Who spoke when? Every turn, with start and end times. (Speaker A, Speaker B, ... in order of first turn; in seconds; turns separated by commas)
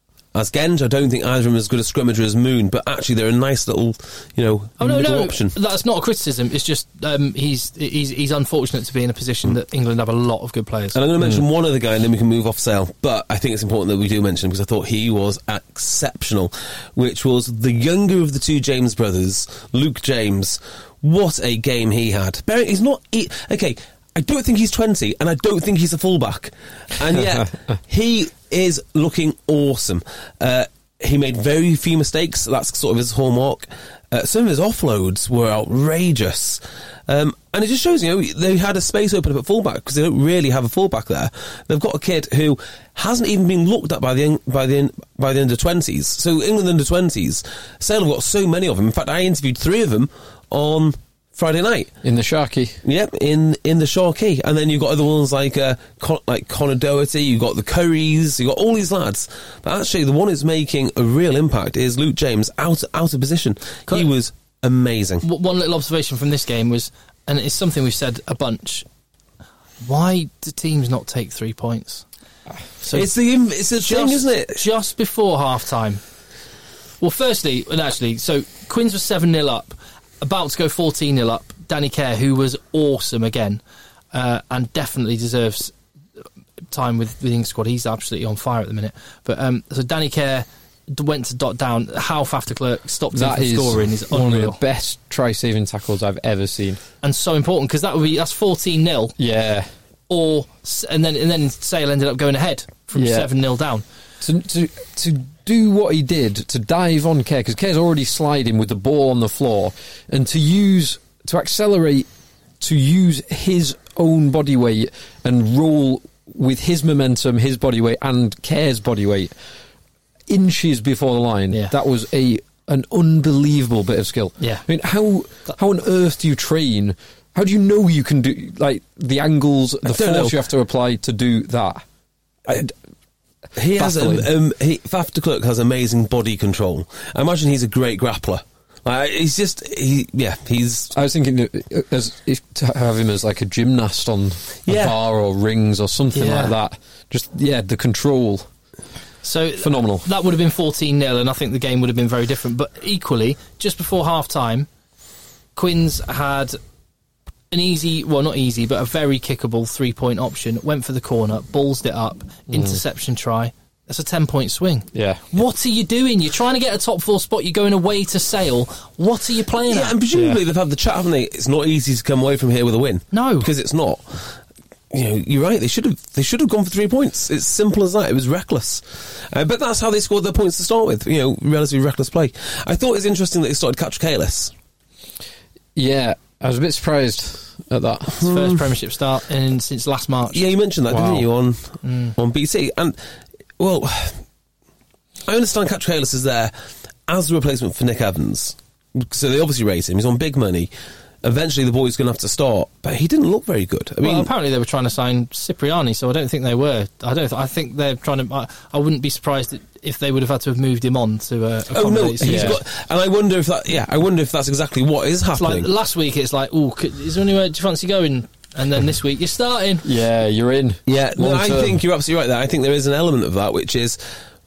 Speaker A: 0.3-5.6, Speaker B: 4.8-11.0, Speaker A: 10.9-51.9, Speaker C: 52.0-52.8, Speaker A: 52.8-65.2, Speaker B: 65.2-68.9, Speaker B: 69.8-72.0, Speaker B: 72.8-73.1, Speaker A: 72.9-74.6, Speaker B: 73.8-76.0, Speaker B: 77.0-83.6, Speaker B: 84.1-85.7, Speaker B: 86.7-94.6, Speaker C: 93.1-96.8, Speaker B: 97.0-99.2, Speaker C: 99.2-99.7, Speaker B: 100.1-103.8, Speaker C: 103.0-103.3, Speaker C: 104.2-112.1, Speaker C: 112.6-119.3, Speaker C: 120.3-131.8, Speaker B: 124.4-124.7, Speaker A: 129.9-130.4, Speaker C: 132.5-132.7, Speaker A: 133.6-140.9, Speaker C: 133.8-134.3, Speaker C: 140.9-148.5, Speaker A: 144.7-145.0, Speaker B: 146.1-146.6, Speaker B: 149.2-154.7, Speaker C: 149.6-150.1, Speaker B: 155.6-156.6, Speaker B: 157.5-170.0, Speaker C: 162.5-162.8, Speaker C: 164.9-165.3, Speaker A: 169.7-174.3, Speaker C: 170.1-170.4, Speaker B: 173.1-173.5, Speaker A: 174.9-184.5, Speaker C: 185.8-188.2, Speaker A: 188.2-188.6, Speaker B: 188.2-190.4, Speaker A: 190.3-193.0, Speaker C: 190.9-191.3, Speaker B: 191.8-192.2, Speaker A: 193.6-194.2, Speaker A: 195.3-196.5, Speaker A: 197.1-200.7, Speaker A: 201.2-204.3, Speaker B: 204.0-212.6, Speaker A: 211.7-215.7, Speaker C: 212.2-212.6, Speaker B: 215.4-219.9, Speaker C: 219.8-221.8, Speaker A: 220.9-224.0